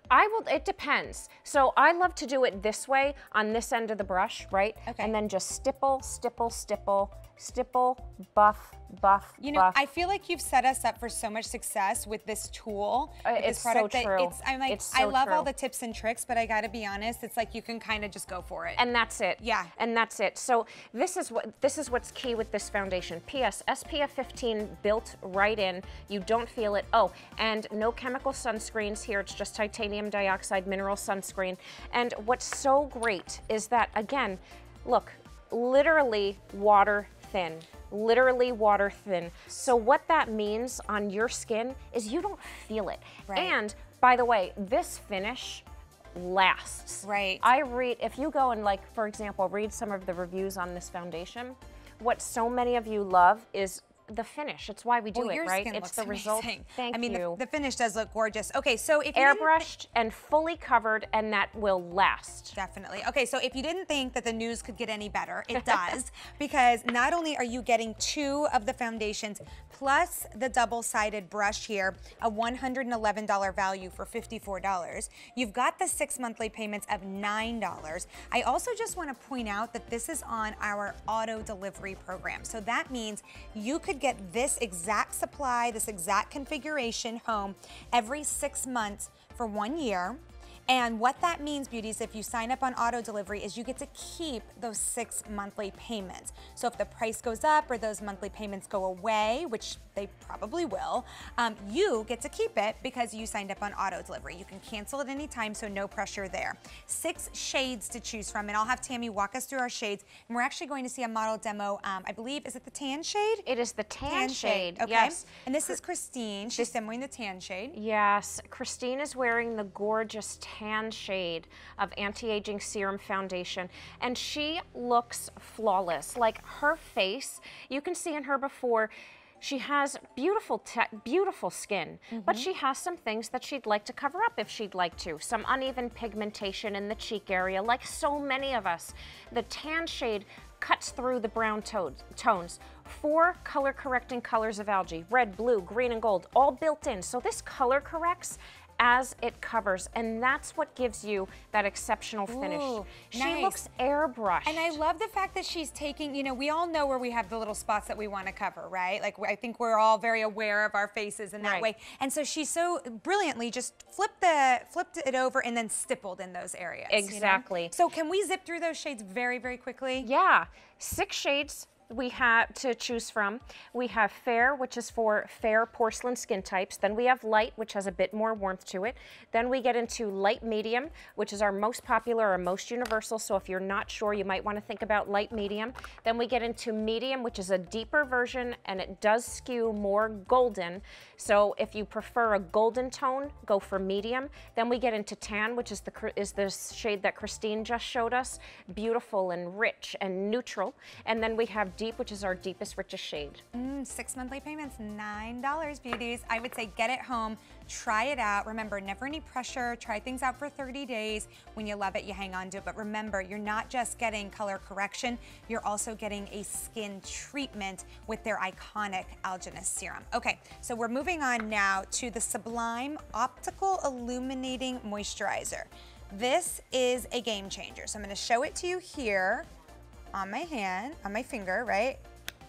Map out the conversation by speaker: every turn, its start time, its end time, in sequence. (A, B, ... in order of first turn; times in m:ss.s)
0:00.1-0:09.8 A
0:04.9-0:05.1 B
0:09.4-0:18.8 B
0:13.2-0:15.5 A
0:18.8-0:57.4 A
0:19.4-0:19.7 B
0:43.3-0:43.6 B
0:47.0-0:47.4 B
0:55.1-0:59.7 B
0:59.2-1:02.6 A
1:02.6-1:53.4 B
1:53.4-1:55.8 A
1:54.1-1:57.8 B
1:57.7-2:34.8 A
2:12.1-2:12.5 B
2:32.3-2:33.6 B
2:34.4-2:50.1 B
2:41.4-2:41.7 A
2:46.9-2:47.8 A
2:50.0-3:23.4 A
3:23.5-3:49.5 B
3:50.1-3:52.0 B